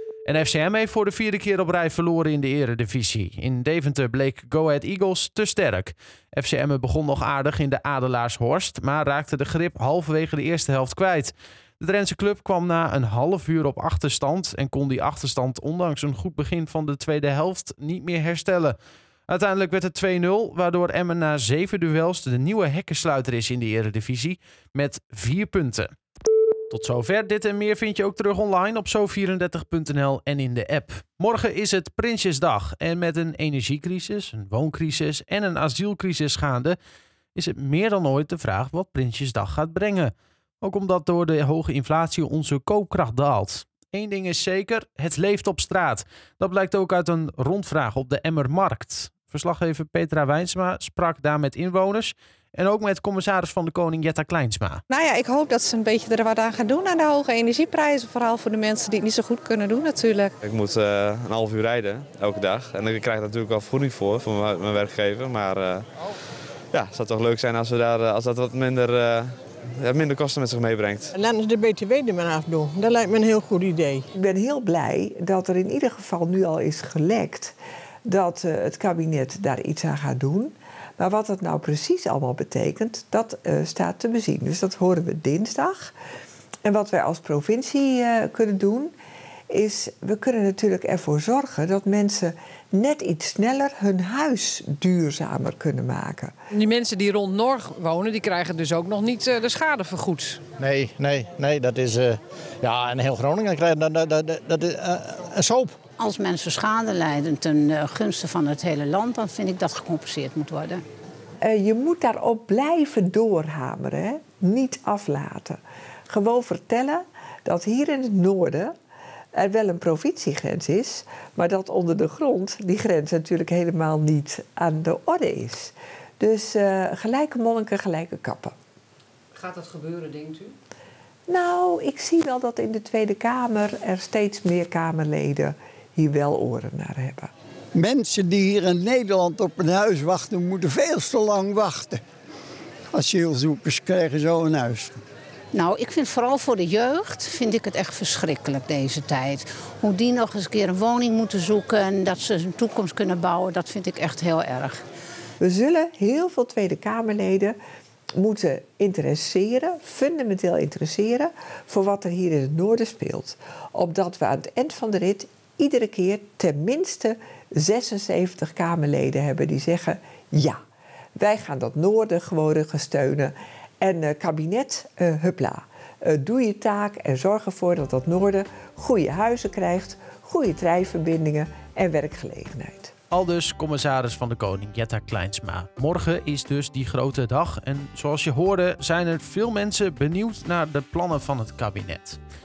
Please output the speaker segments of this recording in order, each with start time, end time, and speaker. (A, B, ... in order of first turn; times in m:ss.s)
0:00.3-0:18.8 A
0:19.3-0:25.9 A
0:26.7-0:36.8 A
0:37.4-0:54.8 A
0:54.9-1:00.3 B
1:00.4-1:05.8 C
1:06.7-1:11.1 C
1:11.1-1:14.0 D
1:14.2-1:25.9 E
1:26.6-1:28.9 E
1:29.5-1:36.3 E
1:36.5-1:40.4 F
1:40.6-1:45.8 G
1:46.0-1:50.8 H
1:51.4-1:58.7 E
1:59.3-2:08.5 E
2:09.4-2:10.5 F
2:11.3-2:17.3 E
2:17.9-2:21.9 I
2:23.1-2:24.9 I
2:25.5-2:34.8 H
2:35.4-2:37.6 E
2:38.2-2:50.6 E
2:51.2-3:02.9 E
3:03.1-3:12.2 A